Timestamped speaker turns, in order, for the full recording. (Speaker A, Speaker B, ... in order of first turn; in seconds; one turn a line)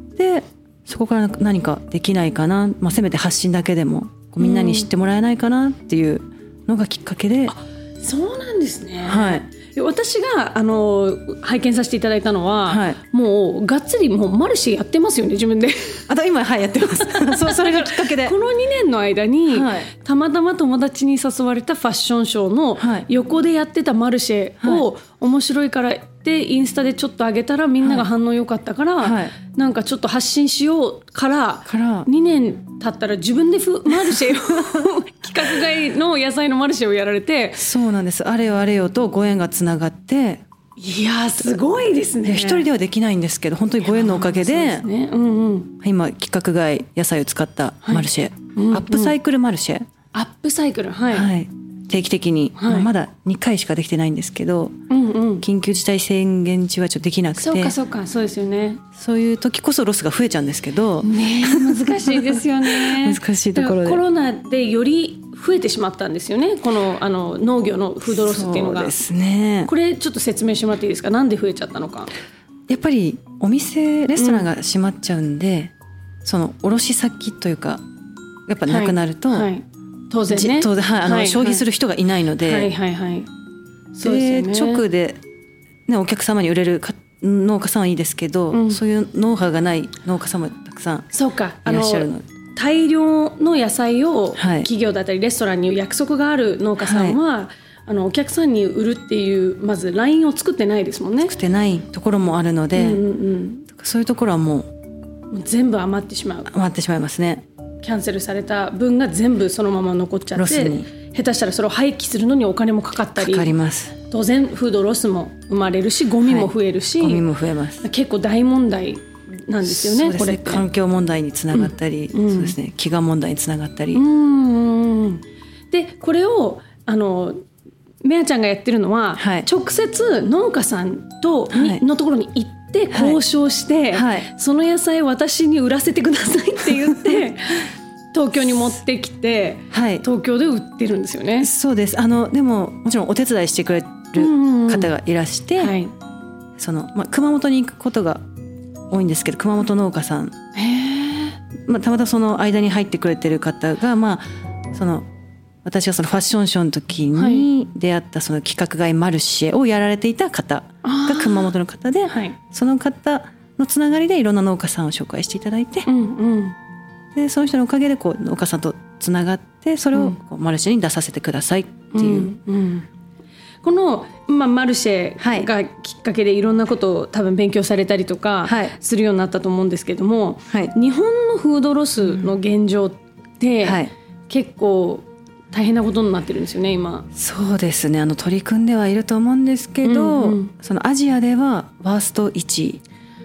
Speaker A: 0.1-7.5
Speaker B: 4.4-4.8
Speaker B: 7.5-16.0
Speaker A: 9.0-9.5
Speaker A: 12.7-13.0
Speaker A: 16.1-18.4
Speaker B: 17.2-37.6
Speaker A: 19.5-19.9
Speaker A: 22.8-23.1
Speaker A: 24.6-24.9
Speaker A: 29.0-29.3
Speaker A: 31.6-32.1
Speaker A: 34.1-34.8
Speaker A: 37.5-40.4
Speaker B: 40.8-42.7
Speaker A: 42.2-44.9
Speaker B: 43.8-45.7
Speaker A: 45.8-49.9
Speaker B: 47.8-49.1
Speaker B: 50.1-51.3
Speaker A: 51.1-54.7
Speaker B: 52.6-52.9
Speaker B: 54.9-55.4
Speaker A: 55.4-57.7
Speaker B: 57.4-58.8
Speaker A: 58.9-64.0
Speaker B: 61.0-68.9
Speaker A: 68.1-69.7
Speaker B: 69.7-72.1
Speaker A: 72.7-75.7
Speaker B: 74.2-74.5
Speaker A: 76.2-77.8
Speaker A: 78.5-79.5
Speaker B: 78.7-81.6
Speaker A: 80.3-82.7
Speaker B: 82.4-83.3
Speaker B: 83.9-84.8
Speaker A: 84.0-85.2
Speaker A: 85.9-91.1
Speaker B: 88.5-88.8
Speaker B: 91.1-101.3
Speaker A: 91.6-92.2
Speaker A: 94.4-94.7
Speaker A: 96.8-97.2
Speaker A: 101.2-103.0
Speaker B: 102.8-103.6
Speaker A: 103.7-104.7
Speaker B: 105.3-106.5
Speaker A: 106.5-107.4
Speaker B: 107.8-113.5
Speaker A: 110.3-110.9
Speaker A: 113.2-113.9
Speaker B: 114.1-117.2
Speaker A: 116.2-117.8
Speaker B: 117.8-120.6
Speaker A: 119.6-124.0
Speaker B: 121.5-122.5
Speaker B: 123.9-127.4
Speaker B: 128.0-141.5
Speaker A: 129.2-129.5
Speaker A: 131.5-131.8
Speaker A: 132.9-133.2
Speaker A: 133.9-134.3
Speaker A: 139.7-140.0
Speaker A: 141.4-145.8
Speaker B: 144.2-144.9
Speaker B: 145.6-145.9
Speaker A: 146.6-148.2
Speaker A: 148.9-150.3
Speaker B: 150.6-151.4
Speaker A: 151.7-155.1
Speaker A: 155.6-165.9
Speaker B: 157.1-157.5
Speaker B: 160.8-161.5
Speaker B: 162.1-162.4
Speaker B: 165.8-166.6
Speaker A: 167.1-172.3
Speaker B: 171.9-172.9
Speaker B: 173.6-187.1
Speaker A: 175.2-175.5
Speaker A: 178.4-178.8
Speaker A: 182.1-182.3
Speaker A: 183.6-183.9
Speaker A: 187.1-192.8
Speaker B: 189.8-190.5